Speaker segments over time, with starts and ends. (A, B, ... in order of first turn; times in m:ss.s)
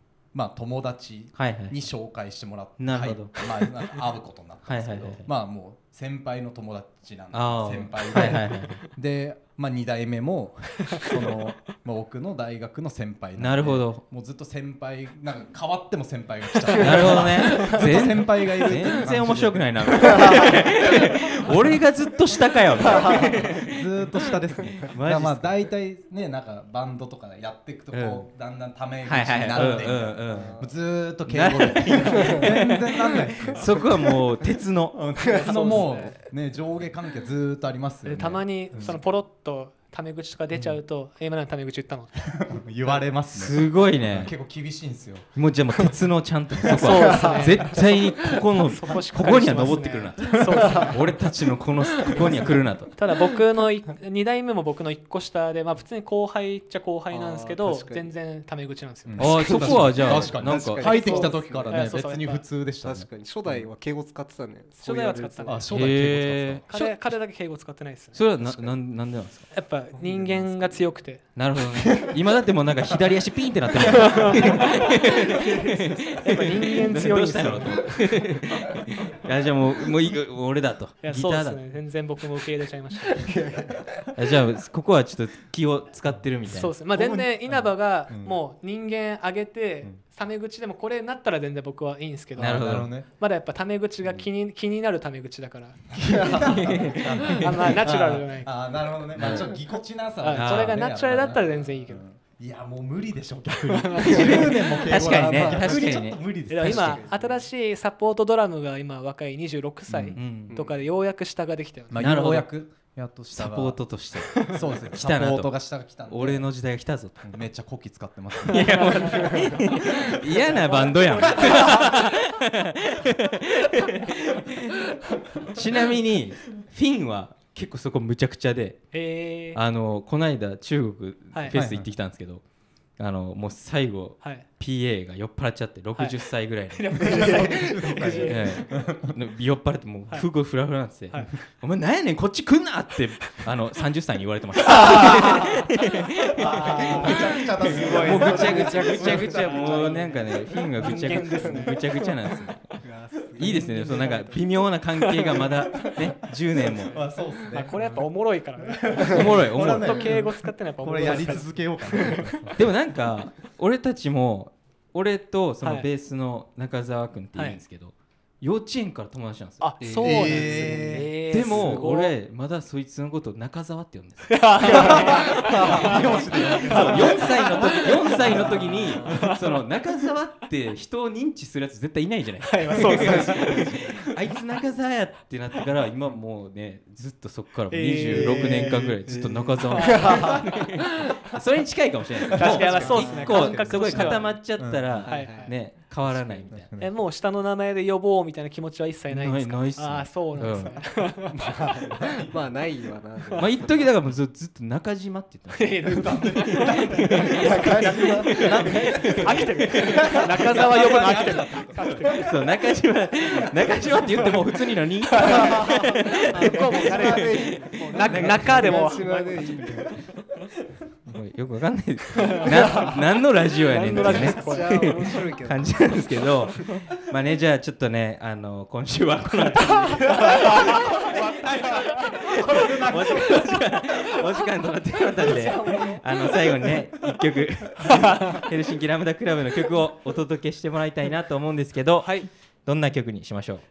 0:00.3-0:21.0 A
0:01.4-0:01.9 B
0:02.8-0:03.4 B
0:04.7-0:05.3 B
0:07.3-0:08.8 B
0:08.2-0:08.6 C
0:13.4-0:14.0 B
0:16.8-0:23.8 B
0:22.9-0:34.2 A
0:24.9-0:25.6 B
0:27.9-0:28.3 B
0:29.0-0:30.6 B
0:29.5-0:30.7 D
0:31.2-0:35.8 B
0:34.9-0:39.0 A
0:35.2-0:36.1 D
0:35.4-0:36.1 C
0:38.0-0:42.3 C
0:40.5-0:40.8 A
0:42.3-0:45.3 A
0:43.3-0:44.3 B
0:45.4-0:53.0 B
0:46.7-0:51.1 C
0:47.0-0:47.7 D
0:52.1-1:02.5 C
0:57.1-0:58.1 D
0:59.1-1:03.7 A
0:59.2-1:00.9 B
0:59.4-1:01.9 D
1:02.8-1:05.6 D
1:04.8-1:06.1 C
1:05.5-1:06.7 A
1:05.7-1:06.8 B
1:06.7-1:08.3 C
1:08.1-1:09.5 B
1:08.4-1:08.8 D
1:09.5-1:11.3 C
1:10.0-1:10.9 D
1:11.4-1:21.6 B
1:13.8-1:18.1 C
1:15.4-1:15.9 D
1:21.0-1:23.2 C
1:23.1-1:23.9 D
1:24.2-1:26.8 B
1:26.5-1:35.9 C
1:26.9-1:28.4 A
1:32.4-1:32.9 B
1:32.4-1:33.1 A
1:35.9-1:47.0 A
1:36.1-1:36.9 D
1:36.5-1:37.7 B
1:37.3-1:38.8 C
1:39.2-1:39.5 B
1:40.2-1:42.0 C
1:40.3-1:40.8 B
1:43.7-1:44.8 C
1:44.1-1:47.0 B
1:45.1-1:46.0 D
1:46.5-1:52.1 C
1:46.7-1:47.5 D
1:49.9-1:50.2 A
1:50.2-1:50.6 B
1:50.5-1:50.8 D
1:51.9-1:53.9 A
1:52.0-1:52.5 B
1:53.3-1:57.3 B
1:54.3-1:54.6 C
1:54.5-1:56.6 A
1:57.2-1:59.4 A
1:58.4-2:04.8 B
1:58.7-1:59.5 C
2:00.2-2:02.0 C
2:05.3-2:08.8 B
2:08.9-2:09.6 C
2:09.5-2:12.4 B
2:11.5-2:11.9 A
2:13.0-2:17.5 B
2:14.2-2:14.5 C
2:16.0-2:18.6 C
2:17.1-2:19.2 A
2:18.2-2:32.8 B
2:21.1-2:21.4 C
2:24.8-2:25.4 C
2:26.4-2:29.9 A
2:26.4-2:28.9 C
2:26.8-2:30.2 D
2:29.4-2:30.1 C
2:30.8-2:32.1 C
2:30.8-2:31.7 D
2:32.8-2:34.2 D
2:33.2-2:34.4 A
2:33.4-2:36.9 B
2:33.5-2:33.7 C
2:35.0-2:35.5 C
2:36.8-2:38.1 A
2:36.9-2:37.6 D
2:37.5-2:42.5 C
2:38.6-2:42.5 A
2:39.1-2:40.1 B
2:42.6-2:49.7 B
2:45.6-2:45.9 C
2:47.4-2:47.6 C
2:49.6-2:52.2 C
2:49.8-2:51.9 D
2:50.0-2:51.1 A
2:51.3-3:16.7 B
2:54.3-2:59.4 C
2:54.7-2:57.3 A
2:58.3-2:59.0 A
3:02.4-3:03.8 C
3:02.9-3:03.6 D
3:07.7-3:08.8 C
3:08.1-3:10.5 A
3:09.7-3:10.2 C
3:09.8-3:10.5 D
3:12.3-3:15.3 A
3:12.3-3:14.4 C
3:12.9-3:13.3 D
3:15.0-3:15.5 D
3:15.1-3:15.6 C
3:16.0-3:17.0 A
3:16.8-3:21.4 C
3:19.1-3:20.8 B
3:21.4-3:22.5 A
3:21.5-3:23.9 D
3:23.4-3:26.3 B
3:25.5-3:32.4 C
3:25.8-3:32.3 A
3:26.9-3:27.3 B
3:27.4-3:29.1 D
3:28.4-3:30.4 B
3:31.9-3:39.0 B
3:33.6-3:34.5 C
3:35.3-3:39.9 C
3:36.3-3:39.9 D
3:41.1-4:03.6 B
3:42.2-3:42.9 C
3:42.6-3:42.9 D
3:43.5-3:45.1 C
3:43.8-3:46.5 D
3:50.1-3:53.6 A
3:50.1-3:50.7 C
3:55.2-3:56.0 D
3:55.5-3:55.8 A
4:02.0-4:02.3 C